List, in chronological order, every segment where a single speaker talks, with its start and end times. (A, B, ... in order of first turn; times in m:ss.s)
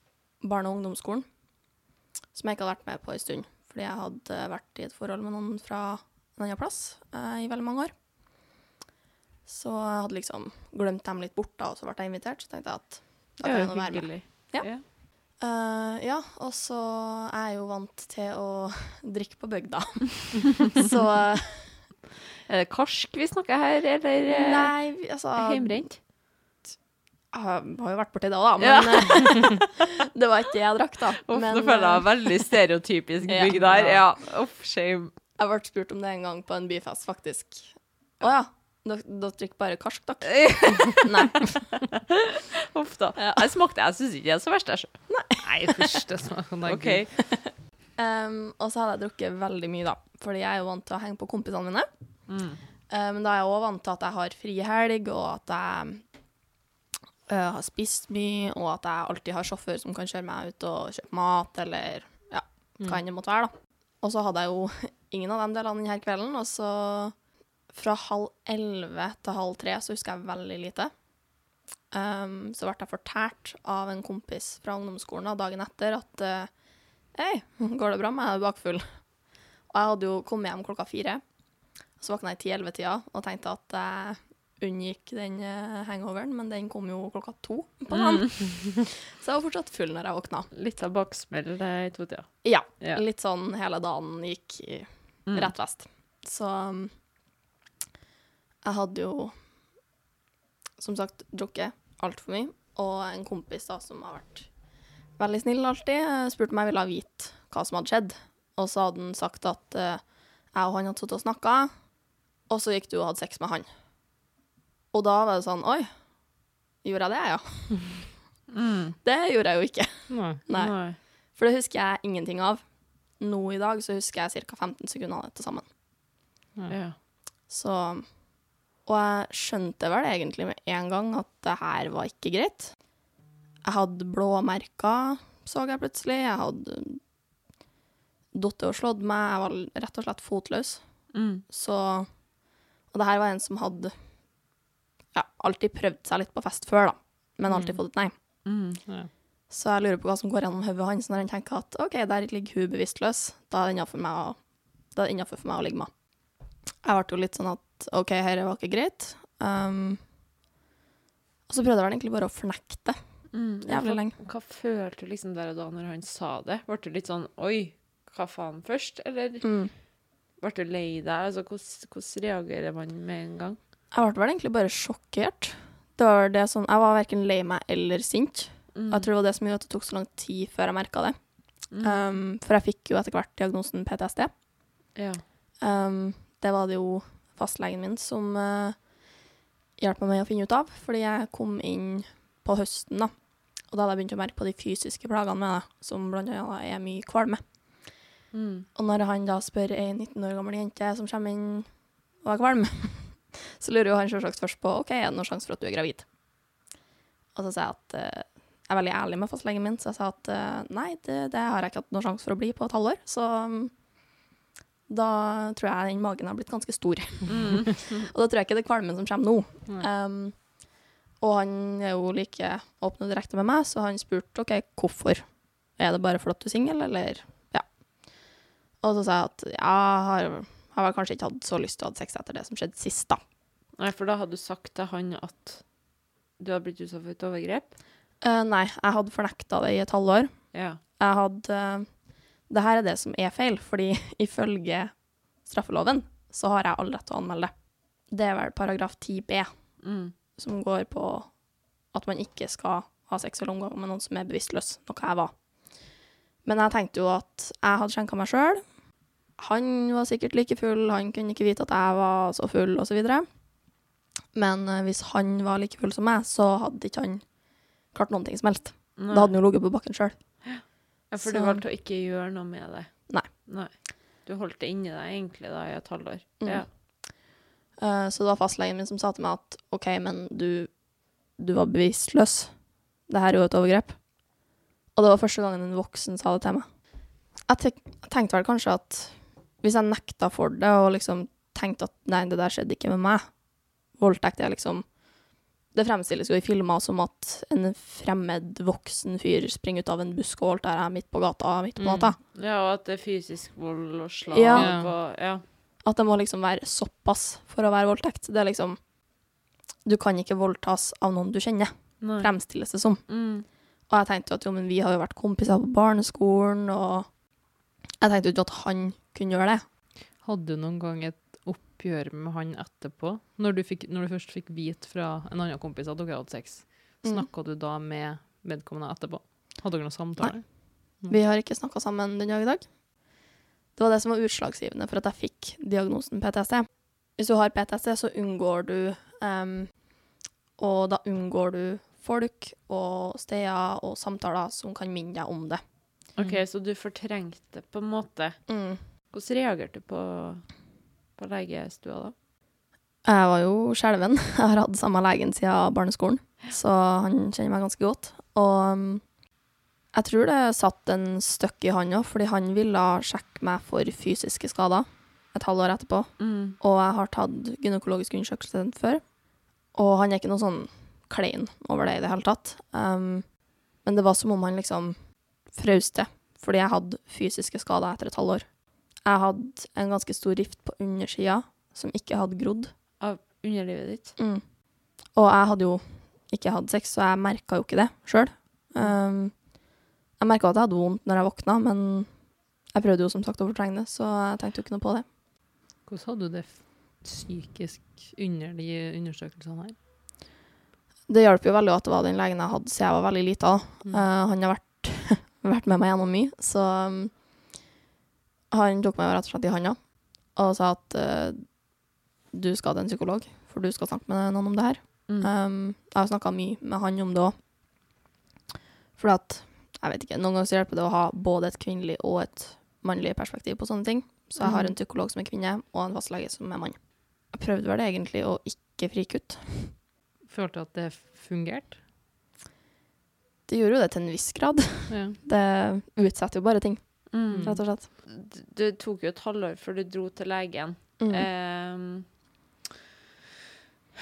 0:00.4-0:01.3 A
0:02.3-0:07.9 A
0:09.4-0:21.9 A
0:13.4-0:14.8 B
0:22.5-0:26.0 B
0:24.3-0:25.9 A
0:27.3-0:32.3 A
0:28.6-0:29.6 B
0:31.2-0:35.2 B
0:33.3-0:33.8 A
0:33.5-0:34.0 C
0:35.4-0:41.8 A
0:40.3-0:41.6 B
0:42.7-0:45.1 B
0:43.2-0:43.5 A
0:45.1-0:46.0 A
0:45.4-0:47.1 C
0:46.6-0:47.2 B
0:47.4-0:51.9 A
0:52.3-0:52.6 B
0:52.9-0:56.1 A
0:57.3-1:07.2 A
1:07.7-1:11.0 A
1:11.9-1:16.5 A
1:17.1-1:19.1 A
1:19.7-1:21.2 A
1:21.9-1:30.5 A
1:27.9-1:28.3 B
1:30.5-1:33.0 B
1:32.4-1:37.0 A
1:35.2-1:35.5 B
1:38.6-1:39.4 A
1:40.8-1:44.5 A
1:45.1-1:51.9 A
1:52.5-1:53.7 A
1:54.9-1:56.1 A
1:56.8-1:58.1 A
1:58.5-1:59.0 B
1:59.0-2:05.7 A
2:00.1-2:00.4 C
2:00.5-2:01.0 B
2:06.7-2:07.0 B
2:07.5-2:08.2 A
2:08.8-2:12.9 A
2:13.6-2:17.0 A
2:18.3-2:22.2 A
2:21.1-2:21.4 B
2:22.9-2:24.3 A
2:25.1-2:28.1 A
2:27.5-2:29.1 C
2:28.4-2:28.8 B
2:29.5-2:36.1 A
2:36.8-2:40.0 A
2:41.5-2:44.2 A
2:43.3-2:49.8 B
2:49.4-2:49.7 A
2:50.4-2:53.6 B
2:53.9-3:04.3 A
2:58.7-2:59.1 B
3:01.7-3:02.2 B
3:04.9-3:05.2 B
3:05.6-3:09.1 A
3:09.8-3:17.9 A
3:18.3-3:18.6 B
3:18.7-3:26.1 A
3:27.3-3:33.8 A
3:34.9-3:40.7 A
3:37.3-3:38.1 B
3:41.2-3:47.8 A
3:48.8-3:53.2 A
3:53.8-3:55.7 B
3:56.4-3:57.7 B
3:58.2-4:15.4 A
4:00.5-4:00.8 B
4:09.8-4:10.1 B
4:16.4-4:18.7 A
4:19.3-4:23.2 A
4:24.3-4:30.6 A
4:29.0-4:29.4 B
4:30.4-4:36.7 B
4:31.2-4:31.6 A
4:36.4-4:37.1 A
4:37.8-4:44.1 A
4:44.9-4:55.0 A
4:55.7-5:02.2 A
5:01.8-5:02.1 C
5:02.3-5:05.4 B
5:04.3-5:04.9 A
5:04.5-5:04.9 C
5:05.8-5:08.9 A
5:09.8-5:17.2 A
5:12.0-5:13.4 B
5:18.0-5:19.6 A
5:20.2-5:31.2 C
5:27.0-5:27.3 A
5:30.2-5:32.8 A
5:33.7-5:39.9 A
5:40.6-5:45.7 A
5:46.2-5:52.1 B
5:48.5-5:48.8 A
5:53.0-5:59.2 A
5:59.9-6:09.1 A
6:06.2-6:06.6 B
6:09.7-6:22.7 A
6:23.0-6:24.2 B
6:24.2-6:29.6 A
6:30.2-6:35.0 A
6:35.8-6:39.8 C
6:41.1-6:47.2 A
6:48.5-6:51.6 A
6:52.3-6:57.4 A
6:59.0-7:09.8 A
7:04.4-7:04.7 B
7:10.3-7:11.8 C
7:13.5-7:17.9 A
7:14.9-7:15.2 C
7:17.1-7:22.1 B
7:17.3-7:17.6 C
7:21.0-7:21.3 A